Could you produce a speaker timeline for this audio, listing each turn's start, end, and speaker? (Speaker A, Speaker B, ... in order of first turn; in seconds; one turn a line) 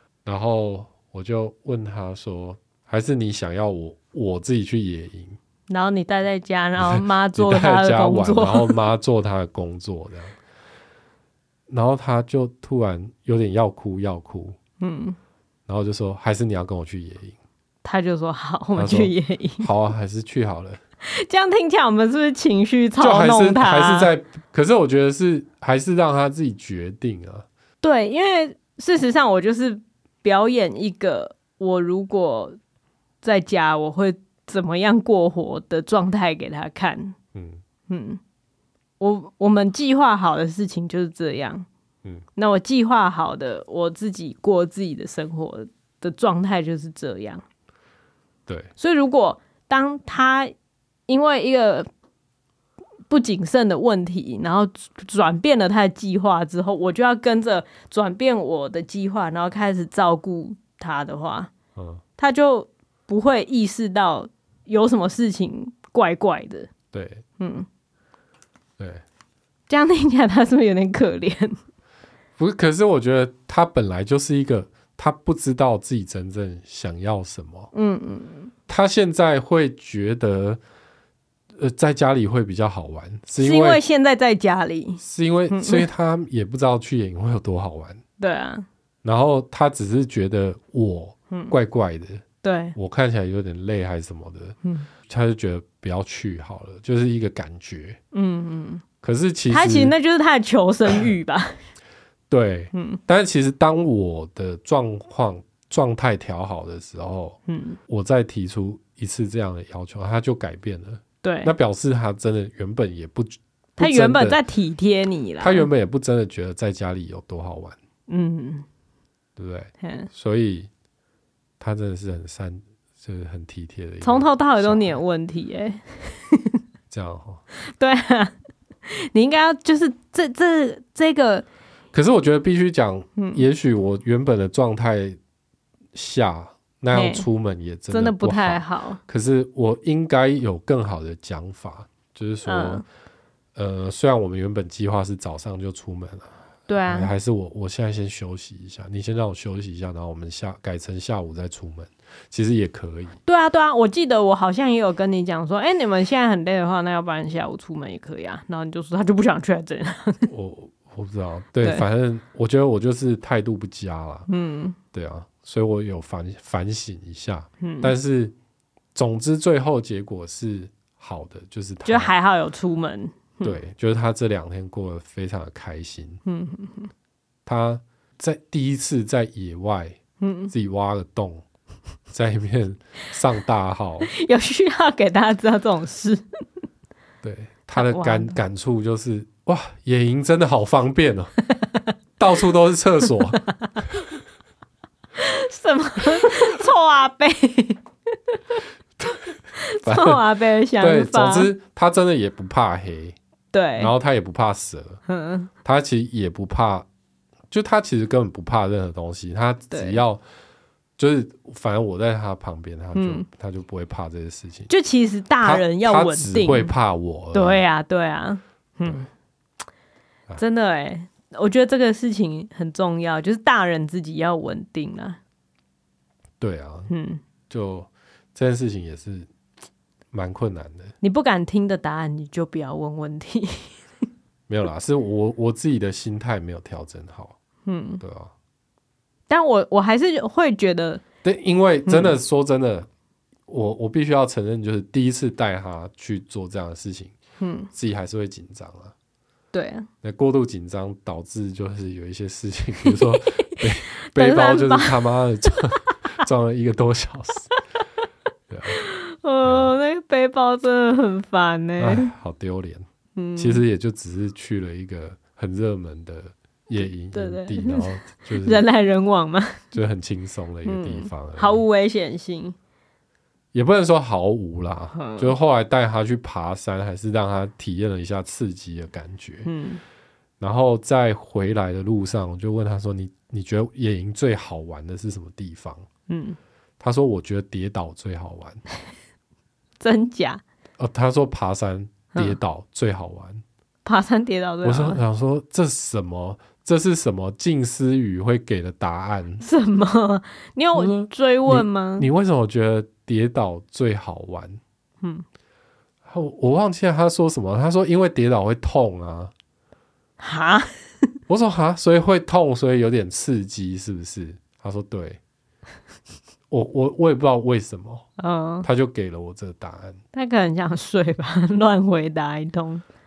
Speaker A: 0.2-5.4
Speaker B: 5.7-8.8
Speaker A: 6.8-10.4
Speaker A: 11.7-14.6
Speaker B: 14.8-15.2
Speaker A: 15.7-17.3
Speaker B: 17.8-19.7
Speaker A: 18.8-20.8
Speaker B: 21.1-24.1
Speaker A: 23.0-27.4
Speaker B: 27.8-32.6
Speaker B: 33.2-37.1
Speaker A: 37.3-37.6
Speaker B: 37.9-38.2
Speaker B: 39.0-41.7
Speaker B: 42.4-47.4
Speaker B: 48.8-50.5
Speaker B: 51.1-51.9
Speaker B: 53.1-61.5
Speaker A: 61.8-62.0
Speaker B: 62.2-66.7
Speaker A: 66.9-67.2
Speaker B: 67.4-67.7
Speaker B: 69.7-71.6
Speaker A: 72.4-77.7
Speaker B: 77.7-78.5
Speaker A: 78.7-80.6
Speaker A: 81.6-83.8
Speaker B: 83.4-85.9
Speaker A: 85.0-88.0
Speaker B: 88.2-88.7
Speaker A: 89.0-92.2
Speaker B: 92.4-92.8
Speaker A: 92.8-98.0
Speaker B: 98.1-98.8
Speaker A: 99.0-99.9
Speaker B: 99.5-101.6
Speaker A: 102.3-114.4
Speaker B: 102.7-103.0
Speaker B: 107.5-107.8
Speaker B: 111.2-111.5
Speaker B: 113.8-115.7
Speaker A: 115.4-117.8
Speaker B: 118.1-118.7
Speaker A: 119.3-120.7
Speaker B: 119.8-120.1
Speaker A: 121.6-124.9
Speaker B: 124.0-126.6
Speaker A: 126.9-127.4
Speaker B: 127.7-128.3
Speaker B: 128.9-131.4
Speaker A: 131.9-135.2
Speaker B: 133.2-133.4
Speaker A: 135.9-142.8
Speaker B: 136.9-137.2
Speaker B: 137.9-139.0
Speaker B: 142.4-142.8
Speaker A: 143.6-146.3
Speaker B: 146.7-147.1
Speaker A: 146.8-153.2
Speaker B: 153.2-160.3
Speaker A: 160.3-164.3
Speaker B: 164.3-164.8
Speaker A: 164.9-168.3
Speaker B: 167.6-167.9
Speaker A: 168.9-172.1
Speaker B: 171.8-173.6
Speaker A: 173.4-176.2
Speaker B: 176.2-176.9
Speaker A: 177.4-180.0
Speaker B: 180.2-180.5
Speaker A: 180.5-181.4
Speaker A: 182.1-184.1
Speaker B: 184.1-186.2
Speaker A: 187.2-191.3
Speaker B: 187.7-188.4
Speaker B: 191.5-191.9
Speaker A: 192.2-193.4
Speaker B: 193.3-193.7
Speaker B: 195.2-197.8
Speaker B: 198.3-198.6
Speaker B: 199.5-201.5
Speaker A: 199.8-200.2
Speaker A: 200.8-203.2
Speaker B: 203.5-203.9
Speaker A: 203.8-205.0
Speaker B: 205.1-205.5
Speaker A: 205.6-206.9
Speaker A: 207.5-210.2
Speaker B: 209.7-210.0
Speaker A: 211.0-214.7
Speaker B: 212.9-213.2
Speaker B: 214.7-216.7
Speaker A: 215.4-217.6
Speaker B: 217.3-219.1
Speaker B: 220.4-225.2
Speaker A: 226.4-226.9
Speaker B: 226.9-227.2
Speaker A: 227.5-229.3
Speaker A: 230.1-230.9
Speaker B: 231.0-233.8
Speaker A: 234.5-237.3
Speaker B: 237.7-238.0
Speaker A: 238.0-238.3
Speaker B: 239.3-241.0
Speaker A: 241.2-242.9
Speaker B: 241.8-242.2
Speaker A: 243.5-247.1
Speaker B: 247.4-247.7
Speaker A: 247.7-248.9
Speaker B: 249.5-249.9
Speaker A: 250.0-257.5
Speaker B: 252.8-255.8
Speaker A: 258.5-258.8
Speaker B: 258.7-262.1
Speaker A: 259.4-259.7
Speaker A: 261.8-262.9
Speaker B: 263.1-263.6
Speaker A: 263.4-268.6
Speaker B: 267.1-267.9
Speaker B: 268.4-269.6
Speaker A: 269.7-271.6
Speaker B: 270.6-272.5
Speaker A: 273.5-279.5
Speaker B: 274.9-275.3
Speaker B: 279.4-279.8
Speaker A: 280.4-285.8
Speaker B: 286.1-286.4
Speaker A: 286.8-288.6
Speaker B: 289.8-290.4
Speaker A: 290.8-293.4
Speaker B: 293.8-295.0
Speaker A: 294.6-299.4
Speaker B: 299.4-302.1
Speaker A: 300.8-304.6
Speaker A: 306.0-309.3
Speaker B: 310.2-310.7
Speaker A: 311.3-315.2
Speaker A: 316.5-318.1
Speaker B: 318.2-318.7
Speaker A: 318.6-320.0
Speaker B: 320.1-322.8